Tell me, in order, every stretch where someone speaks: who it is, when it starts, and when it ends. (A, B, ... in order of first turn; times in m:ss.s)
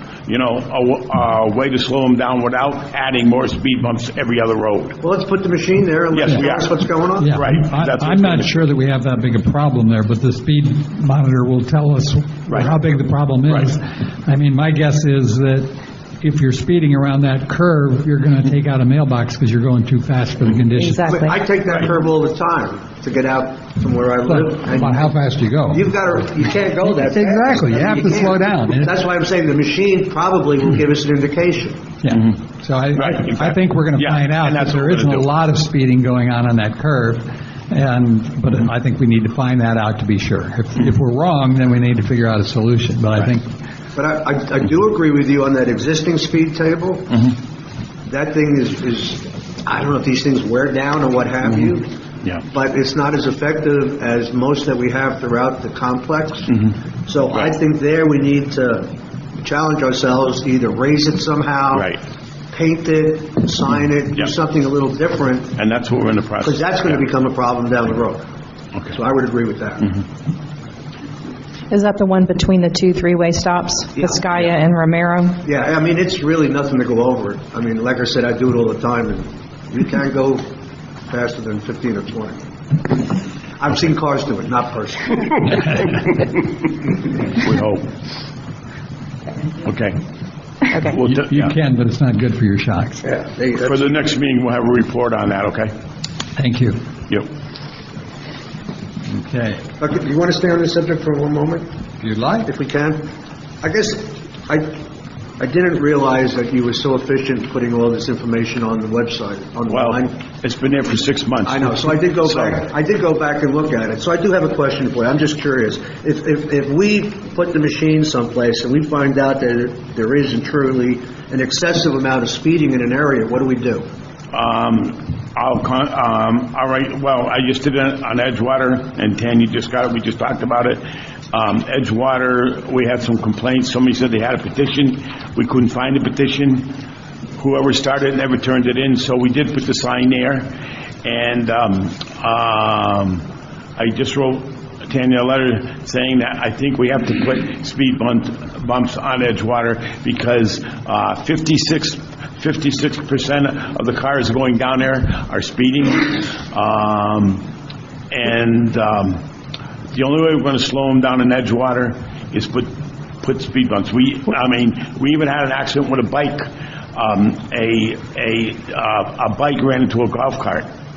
0:00.3-0:05.0 A
0:05.0-0:07.2 B
0:06.1-0:06.7 A
0:07.2-0:21.2 C
0:07.3-0:08.5 A
0:12.5-0:12.7 A
0:20.7-0:21.4 D
0:21.1-0:25.0 B
0:24.2-0:25.9 C
0:25.7-0:31.8 B
0:26.8-0:28.9 C
0:32.0-0:43.5 C
0:33.0-0:35.2 A
0:43.9-0:47.3 B
0:48.0-0:51.9 B
0:52.5-1:01.9 B
0:56.5-0:56.8 A
1:01.7-1:02.0 A
1:02.5-1:05.5 B
1:05.6-1:07.1 A
1:06.4-1:08.2 B
1:08.9-1:09.9 B
1:11.7-1:15.4 D
1:15.4-1:20.4 B
1:21.1-1:22.4 B
1:23.6-1:25.6 B
1:27.3-1:27.8 A
1:29.6-1:30.0 A
1:30.7-1:31.5 A
1:31.0-1:33.0 C
1:33.0-1:33.9 B
1:33.6-1:35.7 A
1:36.4-1:36.8 C
1:39.1-1:39.6 C
1:39.8-1:41.6 B
1:42.0-1:42.5 C
1:42.4-1:43.0 B
1:43.6-1:44.8 B
1:45.4-1:50.2 B
1:49.7-1:52.6 A
1:51.4-2:03.8 B
2:04.3-2:16.8 A
2:17.4-2:20.5 A
2:21.0-2:23.2 A
2:23.8-2:37.4 A
2:38.1-2:39.2 A
2:39.9-2:42.7 A
2:43.2-2:50.7 A